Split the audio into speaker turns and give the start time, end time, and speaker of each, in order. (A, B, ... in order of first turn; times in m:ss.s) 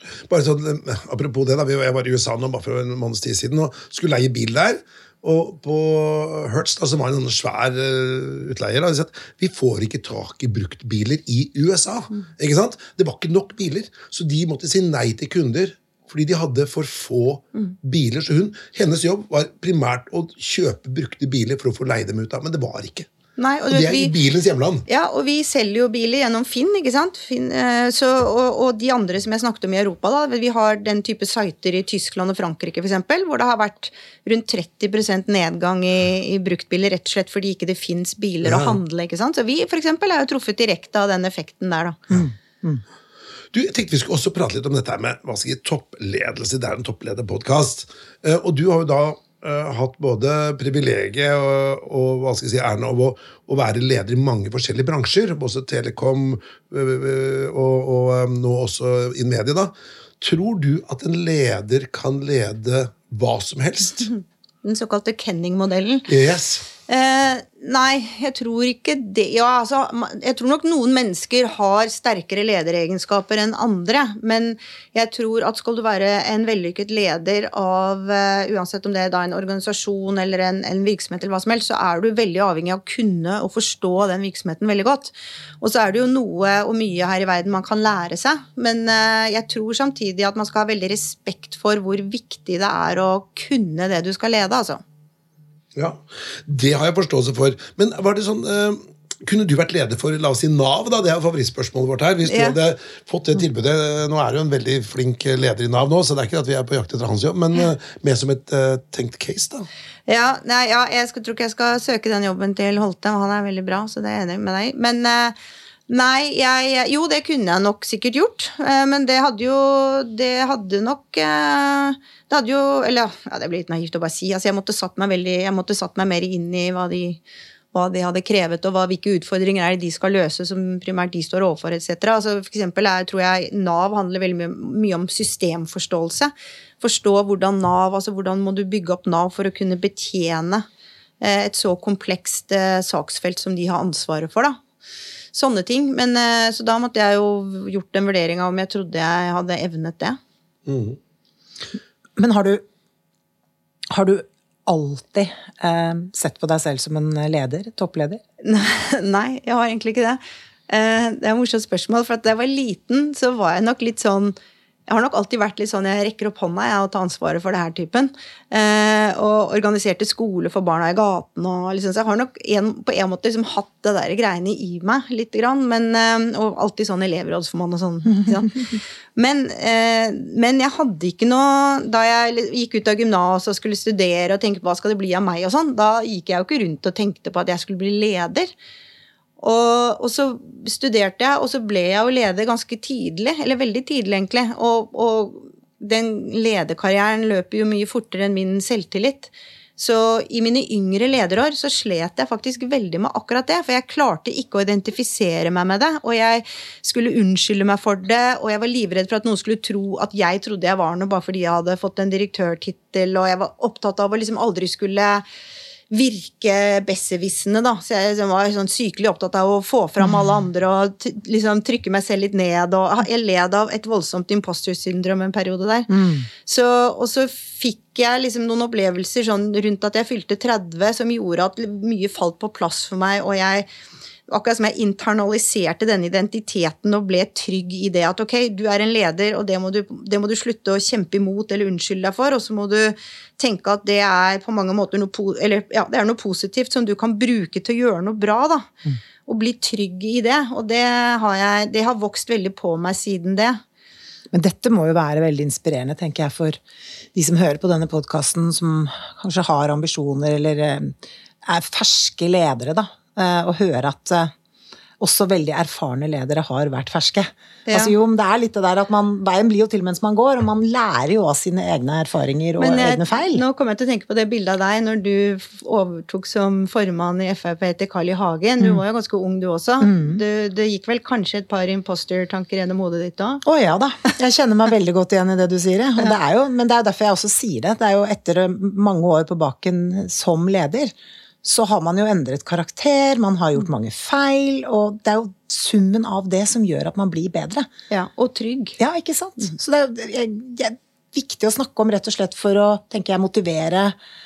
0:00.3-0:23.1 A
0:23.4-0:24.1 B
0:23.7-0:24.8 A
0:24.9-0:42.0 B
0:38.4-0:38.8 A
0:42.1-0:42.8 C
0:43.5-1:04.1 A
1:04.6-1:06.1 B
1:06.1-1:06.7 A
1:06.9-1:34.8 B
1:35.8-1:49.7 A
1:42.2-1:42.6 B
1:50.1-1:55.4 B
1:55.9-2:07.2 B
2:07.7-2:20.7 B
2:21.2-2:24.6 B
2:25.3-2:30.2 B
2:30.7-2:31.0 A
2:32.2-2:32.6 C
2:33.9-2:38.2 C
2:38.4-2:44.4 B
2:44.9-3:08.5 B
3:09.4-3:35.2 B
3:35.9-3:45.9 B
3:45.9-3:46.3 C
3:46.4-3:53.7 B
3:54.3-4:08.7 B
4:09.3-4:13.6 B
4:14.3-4:16.6 C
4:17.1-4:24.3 C
4:25.0-4:33.4 C
4:27.7-4:28.0 B
4:32.6-4:43.4 B
4:39.8-4:40.2 C
4:43.4-4:57.7 C
4:57.9-4:58.8 B
4:58.8-5:04.0 C